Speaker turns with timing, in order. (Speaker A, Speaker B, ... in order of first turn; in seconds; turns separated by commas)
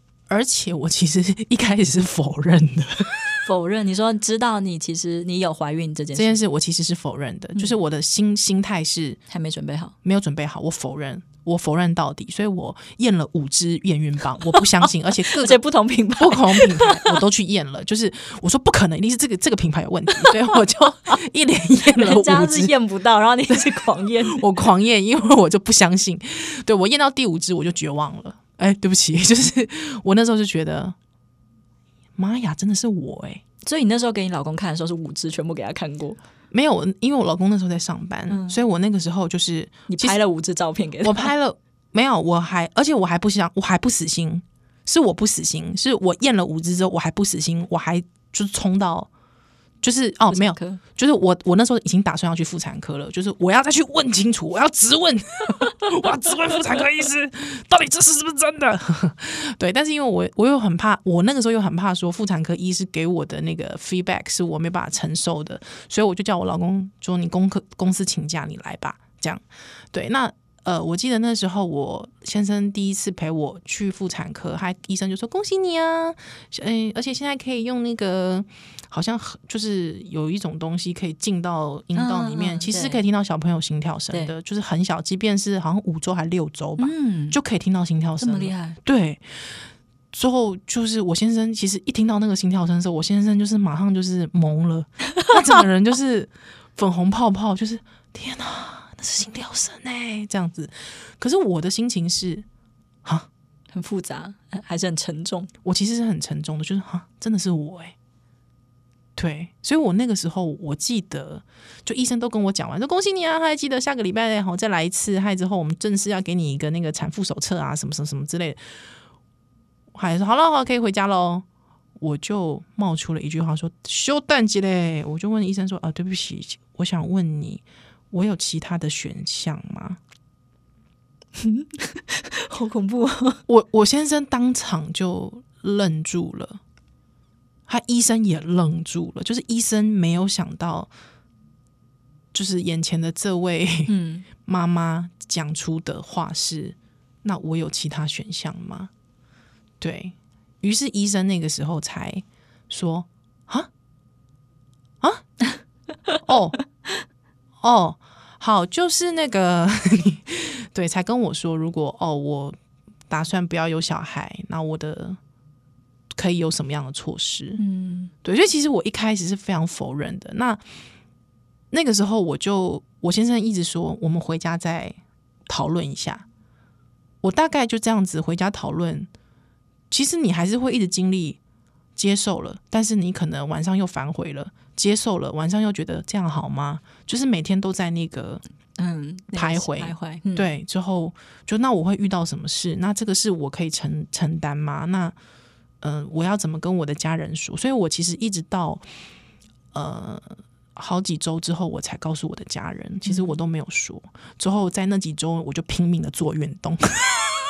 Speaker A: 0.3-3.4, Speaker B: 3.4-6.4, Speaker A: 6.1-9.2, Speaker B: 9.3-9.9, Speaker A: 10.0-15.6, Speaker B: 14.5-17.2, Speaker A: 16.2-22.7, Speaker B: 20.2-20.6, Speaker B: 21.9-24.5, Speaker A: 23.5-30.9, Speaker A: 32.2-33.4, Speaker B: 33.6-36.2, Speaker A: 36.5-40.2, Speaker B: 38.3-38.6, Speaker B: 39.9-41.3, Speaker A: 41.0-49.1, Speaker A: 49.8-89.5, Speaker B: 50.3-50.8, Speaker B: 81.9-83.0, Speaker B: 86.8-87.4, Speaker B: 88.2-88.8, Speaker A: 90.1-102.5, Speaker B: 103.7-105.5, Speaker A: 105.6-107.9, Speaker A: 109.2-118.6, Speaker A: 119.9-121.4, Speaker A: 122.0-130.0, Speaker B: 131.3-133.4, Speaker A: 133.5-136.6, Speaker A: 137.7-140.9, Speaker A: 142.3-148.9, Speaker B: 143.9-144.2, Speaker A: 149.8-153.7, Speaker A: 156.2-156.6, Speaker A: 157.6-162.6, Speaker A: 163.1-165.2, Speaker A: 166.1-167.6, Speaker B: 167.6-168.1, Speaker A: 168.2-170.6, Speaker A: 171.7-176.2, Speaker A: 177.2-179.1, Speaker A: 179.9-181.4, Speaker A: 181.9-188.4, Speaker B: 188.8-190.5, Speaker A: 189.3-195.1, Speaker A: 195.8-198.8, Speaker A: 199.7-207.2, Speaker B: 203.0-203.3